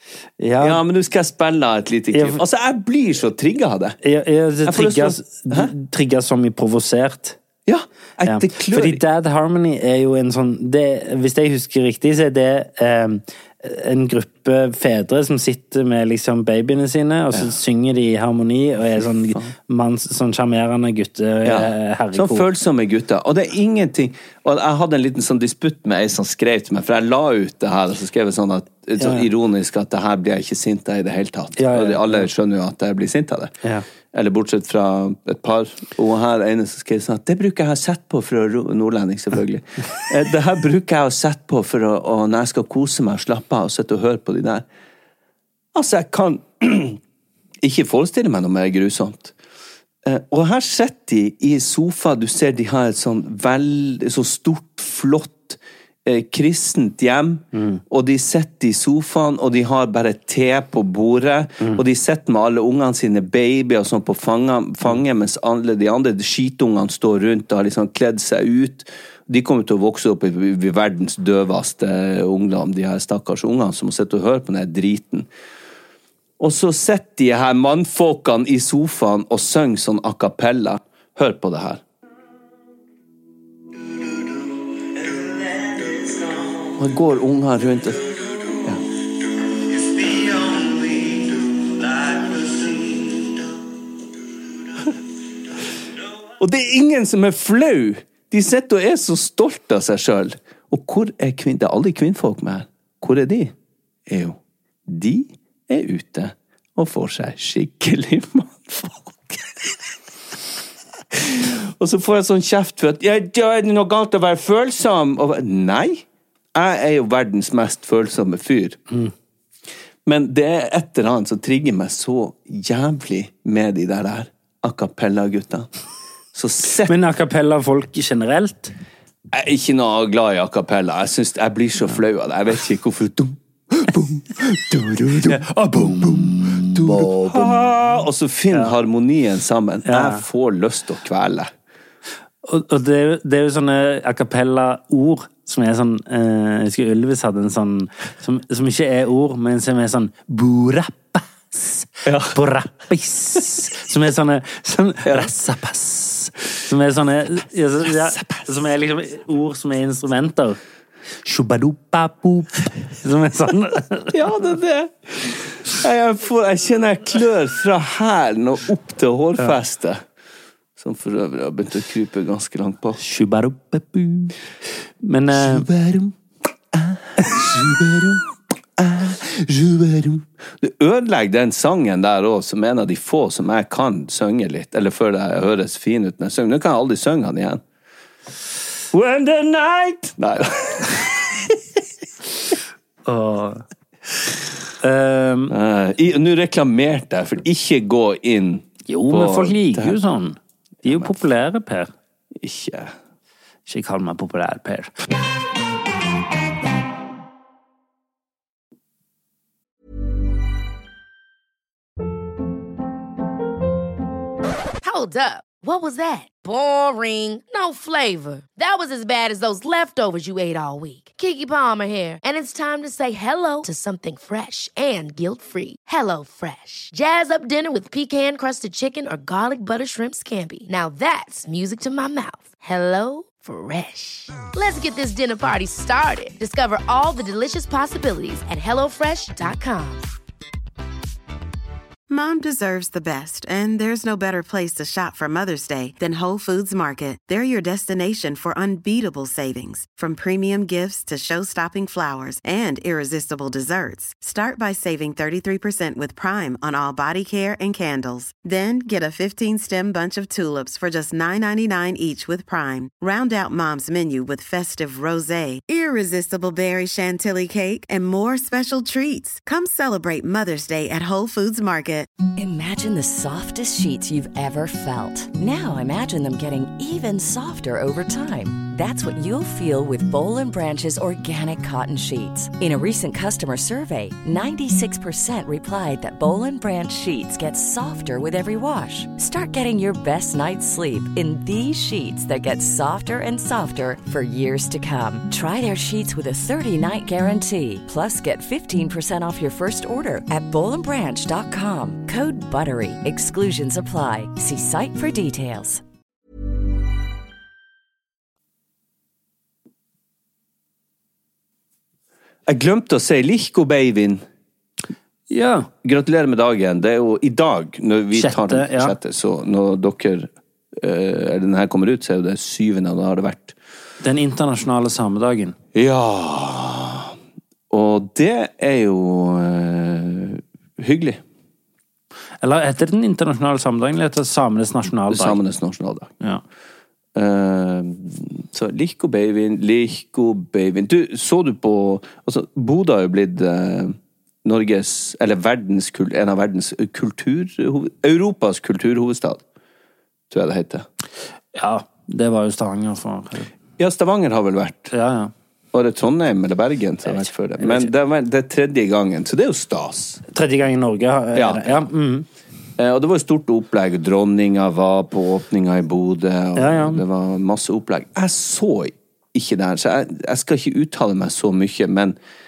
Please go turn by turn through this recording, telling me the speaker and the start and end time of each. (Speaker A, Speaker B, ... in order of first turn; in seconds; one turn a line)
Speaker A: 0.4-0.8
Speaker B: 0.6-4.0
Speaker A: 2.1-2.4
Speaker A: 4.0-7.4
Speaker B: 4.7-5.7
Speaker B: 7.7-9.0
Speaker A: 8.3-22.5
Speaker B: 19.0-19.5
Speaker B: 21.4-33.5
Speaker A: 29.0-29.3
Speaker A: 31.6-32.3
Speaker B: 34.1-44.6
Speaker B: 45.7-47.0
Speaker B: 47.6-49.4
Speaker B: 50.0-75.3
Speaker A: 57.5-57.8
Speaker B: 76.4-81.8
Speaker B: 86.7-88.8
Speaker B: 89.8-93.2
Speaker B: 96.4-103.5
Speaker B: 104.1-109.9
Speaker B: 111.1-118.8
Speaker B: 120.0-125.7
Speaker B: 126.3-127.0
Speaker A: 126.9-128.7
Speaker B: 129.3-141.5
Speaker A: 136.9-137.6
Speaker A: 139.9-140.2
Speaker A: 142.4-160.6
Speaker B: 152.1-152.4
Speaker B: 155.0-155.3
Speaker B: 157.8-158.5
Speaker A: 161.2-164.1
Speaker B: 164.1-170.0
Speaker B: 170.8-173.0
Speaker A: 173.0-174.3
Speaker A: 175.0-175.7
Speaker B: 175.3-176.2
Speaker B: 176.7-187.6
Speaker B: 188.9-191.6
Speaker A: 193.1-193.6
Speaker A: 194.8-195.5
Speaker B: 195.5-200.0
Speaker A: 198.9-201.9
Speaker B: 200.8-201.1
Speaker B: 202.4-202.9
Speaker A: 203.7-204.9
Speaker C: 214.8-240.1
Speaker D: 242.1-272.1
Speaker E: 272.4-305.8
Speaker B: 312.5-314.2
Speaker A: 315.3-315.7
Speaker B: 315.8-323.6
Speaker A: 318.1-319.0
Speaker A: 324.0-325.6
Speaker B: 325.7-327.1
Speaker B: 327.7-331.2
Speaker A: 332.4-335.4
Speaker B: 335.1-336.1
Speaker B: 337.1-349.4
Speaker B: 350.3-350.9
Speaker A: 351.6-353.5
Speaker B: 353.8-354.9
Speaker A: 354.9-355.3
Speaker B: 355.7-360.2
Speaker A: 357.6-357.9
Speaker A: 360.3-362.3
Speaker B: 361.4-361.8
Speaker B: 362.8-372.2
Speaker A: 366.6-367.0